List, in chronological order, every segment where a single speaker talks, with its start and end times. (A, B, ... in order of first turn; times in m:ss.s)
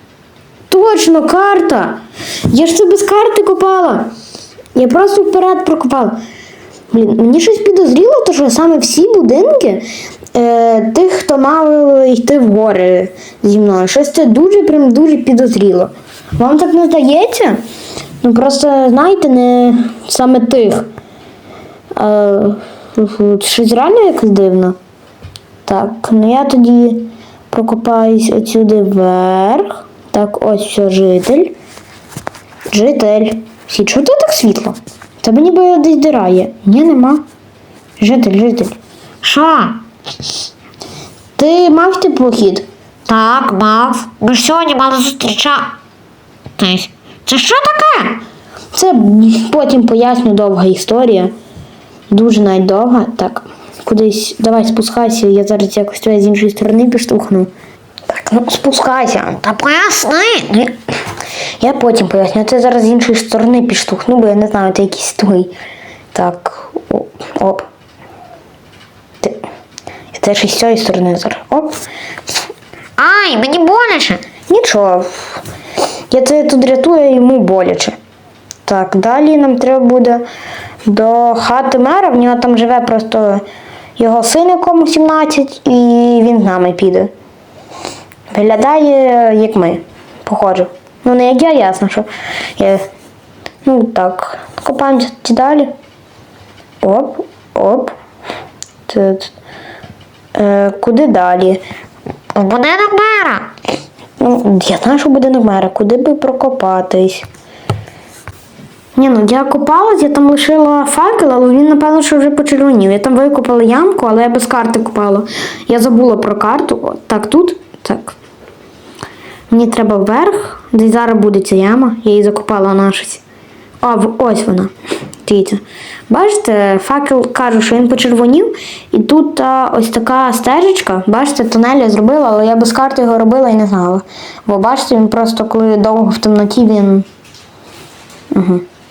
0:00.7-0:04.1 A
0:04.8-0:06.2 A
0:06.9-0:17.6 A
0:18.2-0:20.9 A
0:22.0-0:24.8 A
0:25.6-0:31.5 A
0:32.7-0:37.2 A
0:38.0-0:38.8 A
0:39.2-0:39.8 B
0:41.4-0:42.6 A
0:43.1-0:45.7 B
0:46.6-0:48.2 B
0:48.7-0:51.3 A
0:52.1-0:57.5 A
0:58.1-0:59.4 A
0:59.4-1:00.7 B
1:01.6-1:05.5 A
1:06.1-1:07.6 A
1:10.1-1:11.7 A
1:13.0-1:14.2 B
1:14.5-1:15.4 A
1:16.1-1:18.0 A
1:18.7-1:20.2 A
1:20.8-1:23.4 A
1:24.0-1:27.1 A
1:28.3-1:32.8 A
1:33.6-1:35.7 A
1:36.8-1:38.0 A
1:38.9-1:39.3 A
1:40.4-1:41.6 A
1:42.3-1:43.5 B
1:44.2-1:47.2 A
1:49.0-1:58.2 A
1:59.5-2:03.2 A
2:03.8-2:04.7 A
2:05.2-2:17.1 A
2:18.3-2:18.6 A